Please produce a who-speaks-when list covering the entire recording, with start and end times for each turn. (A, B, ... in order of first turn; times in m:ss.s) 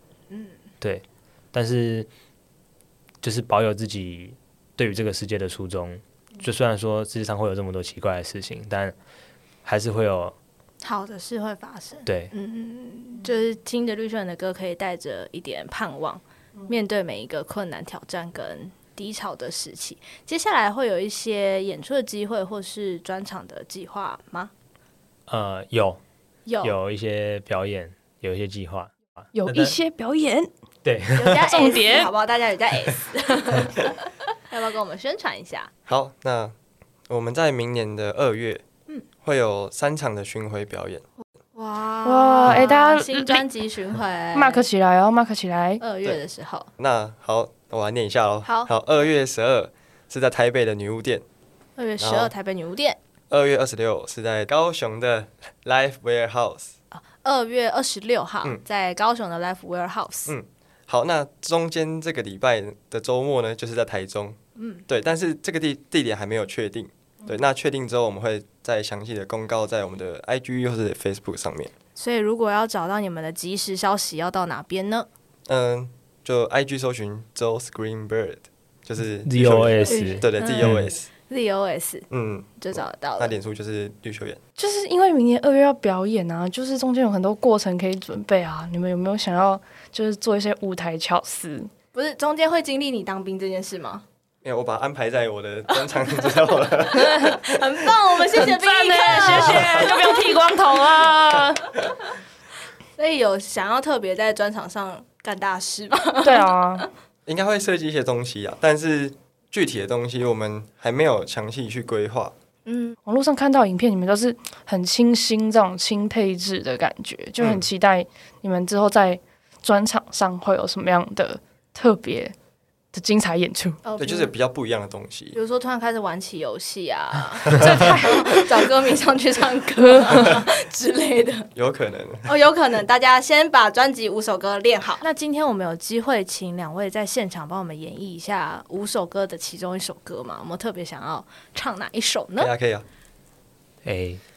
0:00.3-0:00.6 A
0:00.8-0:02.1 B
0:03.2-0:08.9 B
0:09.6-0:10.4 B
0:10.8-0:24.5 A
0:12.0-0:12.3 B
0:25.3-0:26.0 B
0:26.4-0:26.7 A
0:26.6-0:29.7 B
0:29.3-0:30.5 C
0:30.8-0:31.5 B
0:31.1-0:35.7 A
0:31.3-0:32.1 C
0:35.9-0:36.5 D
0:37.1-0:38.6 D
0:39.2-0:41.0 D
0:41.5-0:44.6 A
0:42.0-0:43.4 C
0:44.3-0:45.8 C
0:45.8-0:46.7 A
0:46.8-0:51.2 D
0:48.4-0:48.7 A
0:51.8-0:53.0 A
0:52.0-0:52.3 D
0:53.3-0:56.7 D
0:56.9-1:00.3 A
1:00.3-1:11.7 D
1:04.6-1:04.8 A
1:12.0-1:15.1 A
1:15.5-1:21.1 D
1:19.2-1:20.9 B
1:19.8-1:22.1 A
1:22.1-1:24.4 D
1:22.6-1:23.3 A
1:24.6-1:31.7 C
1:31.9-1:34.0 A
1:34.4-1:37.6 D
1:36.2-1:40.8 A
1:38.3-1:41.7 C
1:39.0-1:39.8 D
1:43.0-1:46.9 A
1:46.2-1:46.8 C
1:47.3-1:52.3 D
1:52.6-1:53.0 A
1:53.0-2:02.3 C
1:57.4-1:57.6 D
2:02.9-2:03.8 C
2:03.8-2:04.3 A
2:04.0-2:05.4 D
2:05.3-2:11.5 A
2:07.5-2:08.5 C
2:09.9-2:10.4 C
2:11.6-2:12.3 D
2:12.2-2:22.5 A
2:22.4-2:22.8 D
2:23.8-2:24.2 B